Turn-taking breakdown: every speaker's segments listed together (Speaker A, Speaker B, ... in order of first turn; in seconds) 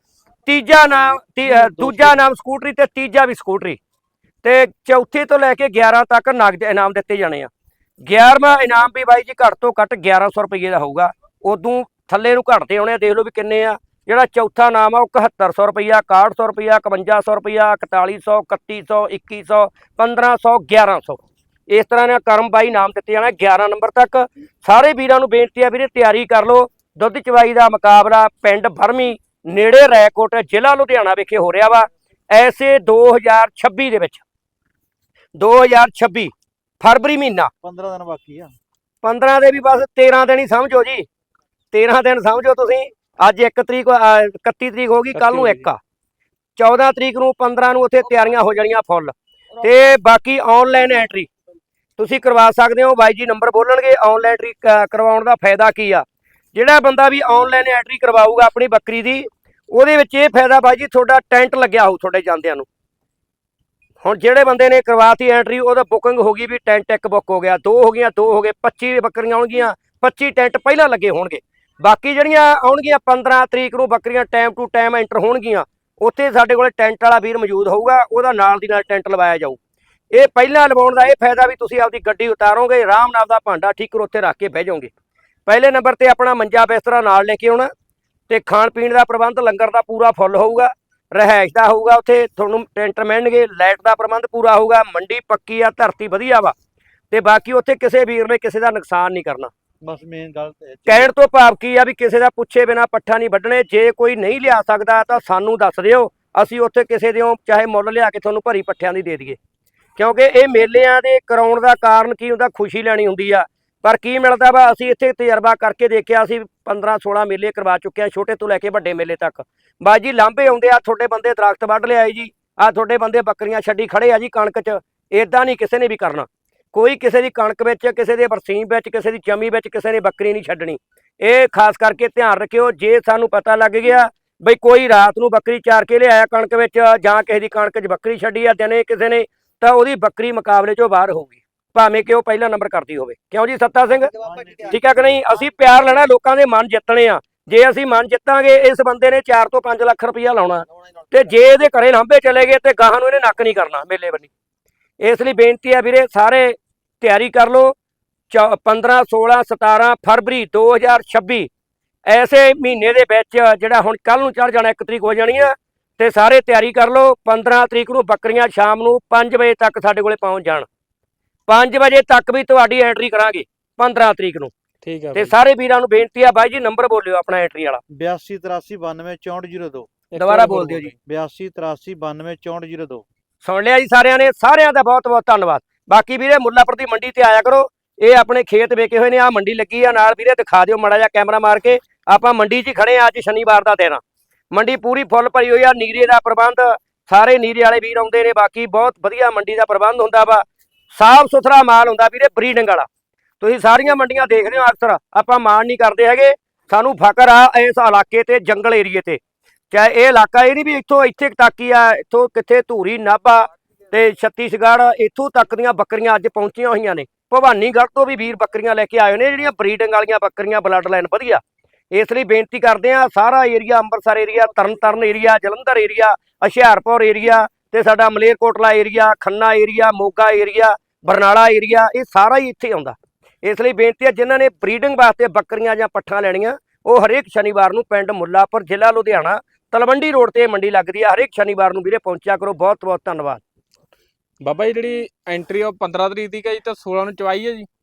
Speaker A: 0.5-3.8, 4.4-7.5, 8.0-34.2, 35.4-37.5, 39.0-41.0, 41.7-45.8, 46.5-51.3, 52.0-62.6, 64.0-79.6, 80.1-84.9, 85.5-87.7, 88.3-96.5, 97.1-99.5, 100.8-109.4, 110.0-144.1, 144.6-154.3, 155.0-157.7, 158.3-161.5, 162.1-170.7, 171.5-174.5, 175.1-177.8, 180.2-180.9, 183.4-194.0, 194.5-202.9, 203.4-209.2, 209.7-243.4
Speaker B: 1.4-2.2, 37.6-38.5, 99.8-101.1, 144.1-144.8, 177.9-179.9, 180.9-183.0
Speaker C: 45.1-45.6, 174.8-175.3, 180.1-180.9, 244.4-247.7